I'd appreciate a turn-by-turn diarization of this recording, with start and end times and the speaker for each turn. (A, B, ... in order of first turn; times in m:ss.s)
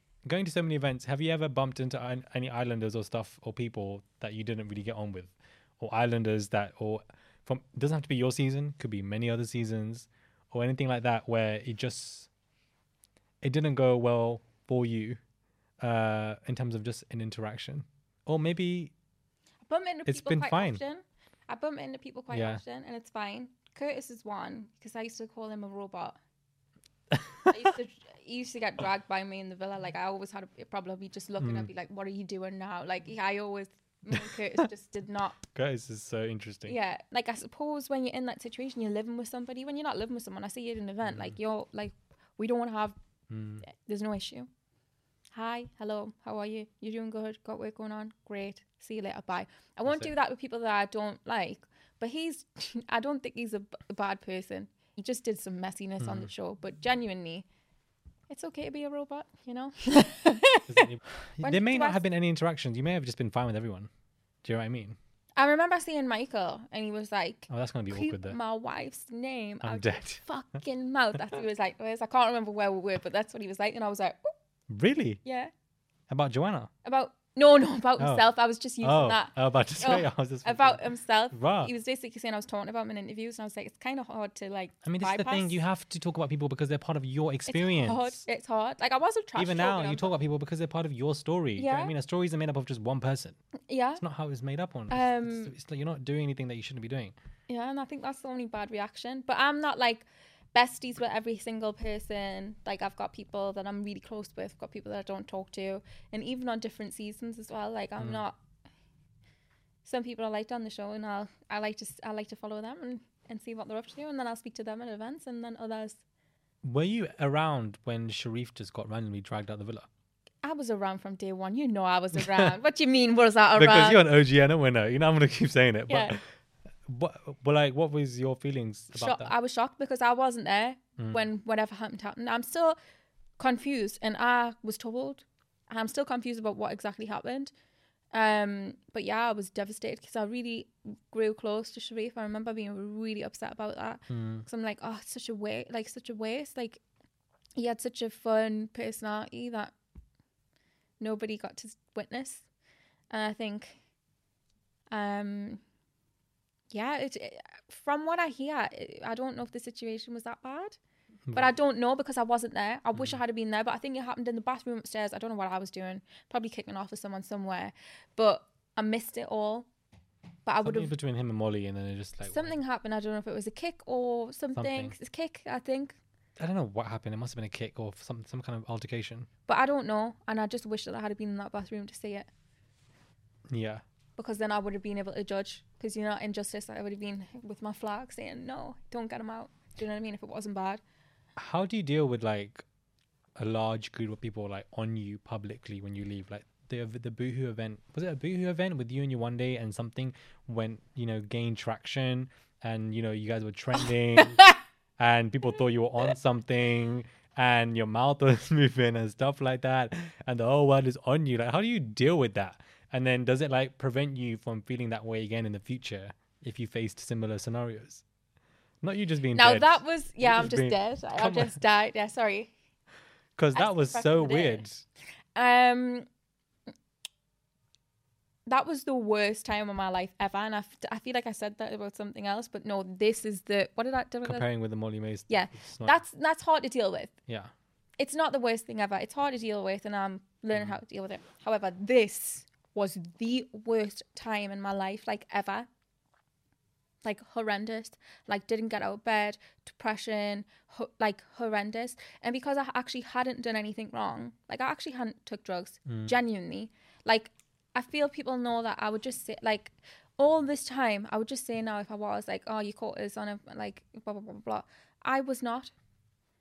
0:00.2-0:12.3 A
0:13.4-0:15.2 A
0:15.8-0:18.9 A
0:19.7-0:26.2 B
0:20.1-0:20.8 A
0:22.3-0:22.6 A
0:27.1-0:27.6 A
0:27.5-0:35.4 B
0:31.4-0:31.7 A
0:34.1-0:34.6 A
0:35.5-0:36.8 A
0:36.6-0:43.0 B
0:41.0-0:41.3 A
0:43.3-0:43.6 A
0:43.6-0:44.5 B
0:45.3-0:57.4 B
0:56.0-0:56.3 A
0:58.3-1:00.8 B
1:00.7-1:03.9 A
1:01.4-1:02.0 B
1:04.4-1:05.0 A
1:05.4-1:14.3 B
1:07.5-1:08.4 A
1:09.6-1:10.2 A
1:14.7-1:15.2 A
1:15.2-1:15.5 B
1:16.1-1:16.7 A
1:16.8-1:25.6 B
1:18.0-1:18.3 A
1:18.8-1:21.7 A
1:24.8-1:28.2 A
1:27.5-1:30.1 B
1:29.4-1:33.4 A
1:31.6-1:31.9 B
1:33.7-1:34.0 B
1:34.0-1:37.1 A
1:34.9-1:35.5 B
1:37.5-1:48.4 B
1:49.8-1:56.0 B
1:56.6-1:59.9 A
2:00.4-2:04.0 B
2:02.1-2:02.5 A
2:03.5-2:06.2 A
2:05.9-2:06.2 B
2:06.9-2:09.3 A
2:08.9-2:12.8 B
2:11.0-2:11.2 A
2:13.4-2:17.5 B
2:18.1-2:26.8 B
2:24.1-2:24.5 A
2:27.6-2:29.7 B
2:31.0-2:32.4 B
2:33.1-2:33.8 B
2:34.9-2:35.6 B
2:36.7-2:40.8 B
2:41.3-2:41.5 A
2:41.3-2:49.7 B
2:42.9-2:43.2 A
2:50.4-2:50.9 B
2:50.6-2:52.6 A
2:52.2-2:56.0 B
2:54.6-2:54.9 A
2:56.4-2:59.3 A
2:59.5-3:02.3 B
3:03.5-3:03.8 A
3:04.2-3:10.8 B
3:11.4-3:12.6 A
3:13.4-3:38.0 A
3:38.8-3:41.6 A
3:39.3-3:42.5 B
3:43.4-3:44.8 A
3:43.5-3:44.6 B
3:45.4-3:46.0 B
3:48.5-3:54.5 B
3:54.2-3:56.0 A
3:55.3-3:57.1 B
3:58.0-4:05.7 B
4:00.5-4:00.8 A
4:07.0-4:25.7 B
4:15.9-4:16.2 A